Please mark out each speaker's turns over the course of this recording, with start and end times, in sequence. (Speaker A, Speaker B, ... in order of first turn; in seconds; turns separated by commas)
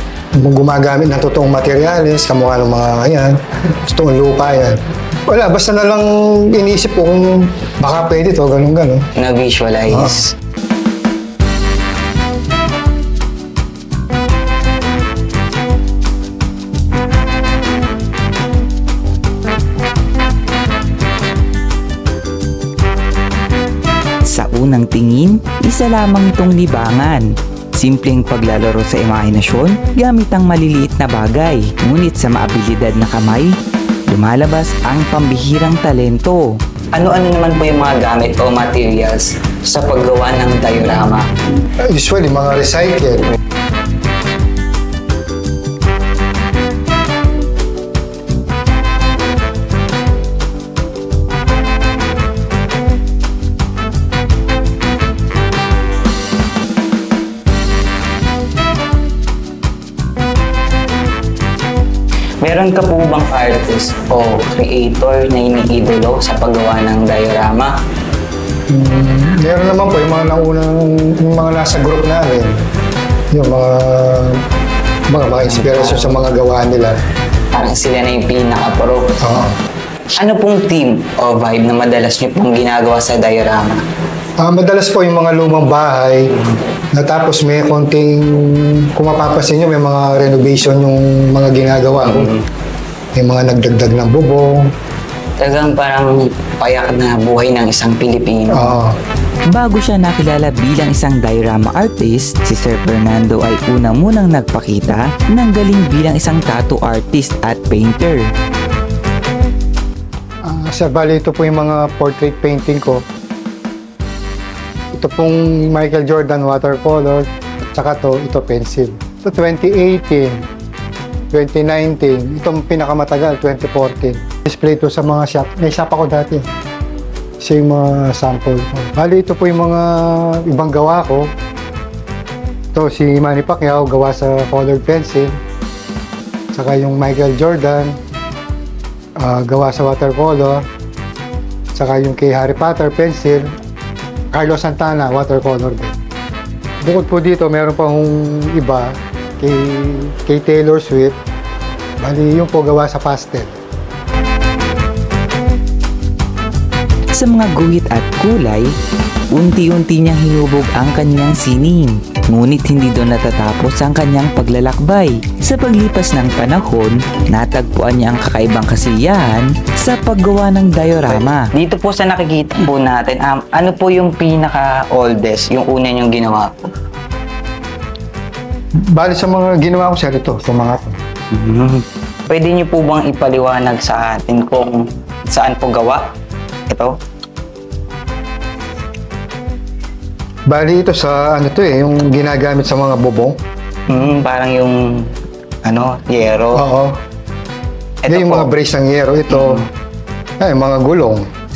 Speaker A: 0.3-9.1, Speaker B: 9.2-10.3, Speaker A: 9.9-10.2, Speaker C: 24.3-33.6, Speaker C: 34.1-39.2, Speaker B: 37.1-38.0, Speaker B: 39.2-39.6, Speaker C: 39.7-41.2, Speaker A: 41.9-43.3, Speaker B: 62.4-67.7, Speaker A: 68.7-72.7, Speaker A: 73.3-74.4, Speaker A: 75.1-77.0, Speaker B: 75.4-76.2, Speaker B: 77.5-79.2, Speaker A: 79.2-79.6, Speaker B: 80.2-83.8, Speaker A: 84.4-86.4, Speaker A: 87.0-92.3, Speaker B: 92.0-92.4, Speaker A: 93.2-94.7, Speaker B: 95.4-98.8, Speaker A: 98.5-99.0, Speaker C: 99.5-108.3, Speaker A: 110.5-113.0, Speaker A: 114.9-120.5, Speaker A: 121.3-126.5, Speaker A: 127.4-131.3, Speaker A: 132.7-135.4, Speaker A: 136.5-138.0, Speaker A: 139.2-140.7, Speaker A: 141.8-143.5, Speaker A: 144.3-145.9, Speaker A: 146.8-151.2, Speaker A: 152.0-153.6, Speaker C: 157.2-158.7, Speaker C: 159.3-171.6, Speaker B: 171.6-172.8, Speaker C: 172.5-173.9, Speaker B: 173.5-174.9, Speaker C: 174.9-176.5, Speaker A: 178.9-181.0, Speaker B: 181.3-186.1, Speaker B: 186.7-186.9, Speaker A: 190.5-193.4, Speaker B: 193.9-196.7, Speaker A: 196.5-197.0, Speaker B: 198.1-198.5, Speaker A: 198.1-199.7, Speaker B: 199.3-199.7, Speaker A: 200.4-201.3